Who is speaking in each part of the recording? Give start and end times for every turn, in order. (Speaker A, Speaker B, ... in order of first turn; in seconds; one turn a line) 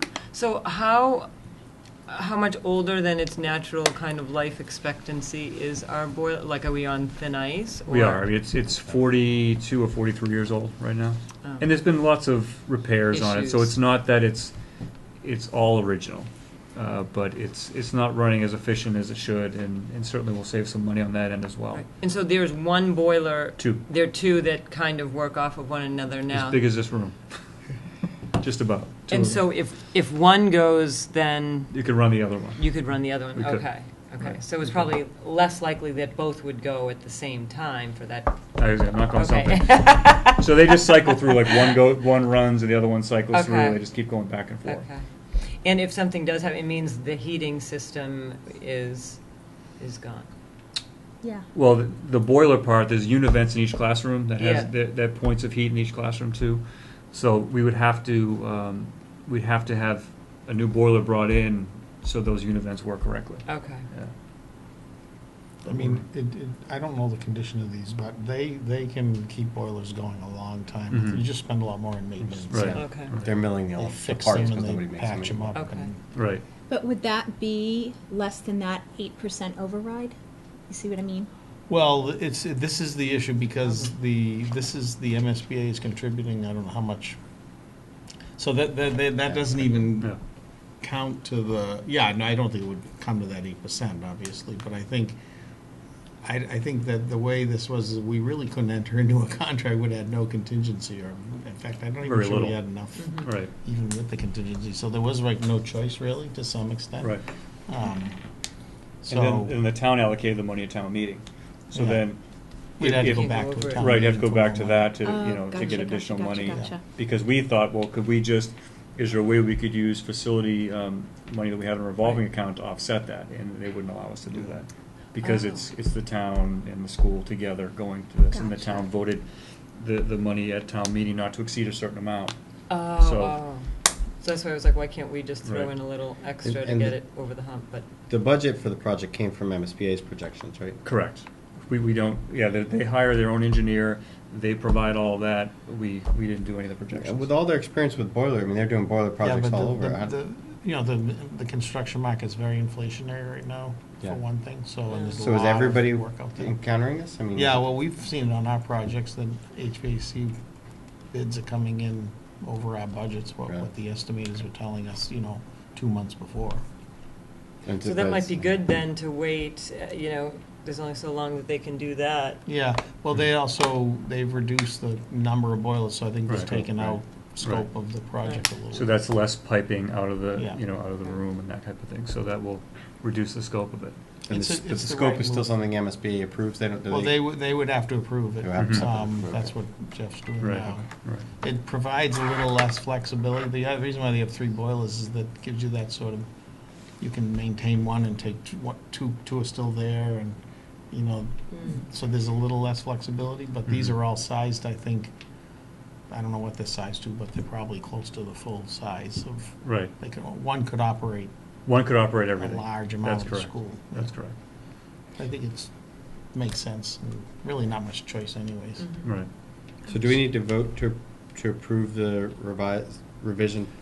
Speaker A: 0.3-1.3
Speaker A: 2.1-8.2
Speaker B: 7.9-14.5
Speaker A: 13.1-13.7
Speaker B: 15.2-21.8
Speaker A: 21.7-26.6
Speaker B: 23.6-23.8
Speaker B: 26.3-27.4
Speaker B: 28.4-29.4
Speaker A: 29.1-31.9
Speaker B: 31.7-32.6
Speaker A: 32.5-38.5
Speaker B: 33.3-33.7
Speaker B: 34.2-34.9
Speaker B: 38.5-44.9
Speaker A: 39.1-40.7
Speaker A: 43.3-43.8
Speaker A: 44.6-49.2
Speaker A: 49.8-50.3
Speaker B: 51.5-64.1
Speaker A: 54.4-54.7
Speaker A: 63.5-63.9
Speaker C: 65.6-76.0
Speaker B: 65.7-66.0
Speaker B: 70.9-71.3
Speaker B: 72.2-73.3
Speaker A: 72.7-73.1
Speaker D: 73.2-75.7
Speaker A: 75.5-75.9
Speaker B: 76.1-76.4
Speaker E: 76.7-80.2
Speaker E: 80.7-81.3
Speaker C: 81.7-87.2
Speaker C: 88.4-90.2
Speaker C: 90.8-95.2
Speaker C: 96.2-108.2
Speaker B: 102.0-102.6
Speaker A: 103.0-103.2
Speaker B: 103.2-103.5
Speaker B: 107.0-107.2
Speaker B: 109.0-112.2
Speaker C: 109.1-109.5
Speaker C: 111.7-112.0
Speaker C: 112.8-115.0
Speaker B: 112.8-129.2
Speaker A: 113.0-113.9
Speaker E: 115.0-116.8
Speaker C: 116.5-116.7
Speaker A: 125.2-125.7
Speaker E: 128.3-128.8
Speaker B: 129.8-132.3
Speaker A: 132.7-133.7
Speaker B: 132.9-133.4
Speaker A: 134.2-137.9
Speaker B: 135.4-135.7
Speaker D: 136.4-136.9
Speaker D: 138.1-140.8
Speaker B: 140.8-147.3
Speaker D: 146.9-150.1
Speaker C: 149.2-156.6
Speaker A: 154.9-155.2
Speaker D: 155.2-157.6
Speaker C: 157.3-160.3
Speaker C: 161.1-166.6
Speaker D: 167.6-168.5
Speaker A: 167.8-172.4
Speaker C: 172.4-178.9
Speaker D: 176.4-177.0
Speaker B: 178.7-183.9
Speaker D: 184.3-187.2
Speaker C: 184.3-185.5
Speaker C: 186.9-190.9
Speaker D: 188.4-189.5
Speaker B: 188.6-188.8
Speaker B: 190.4-191.2
Speaker C: 191.4-196.3
Speaker C: 197.0-200.4
Speaker C: 200.9-205.1
Speaker B: 203.7-203.9
Speaker C: 206.1-211.3
Speaker B: 209.6-209.9
Speaker B: 211.7-214.3
Speaker C: 212.4-214.1
Speaker C: 215.2-215.7
Speaker C: 216.3-219.0
Speaker B: 219.0-219.3
Speaker D: 219.9-223.7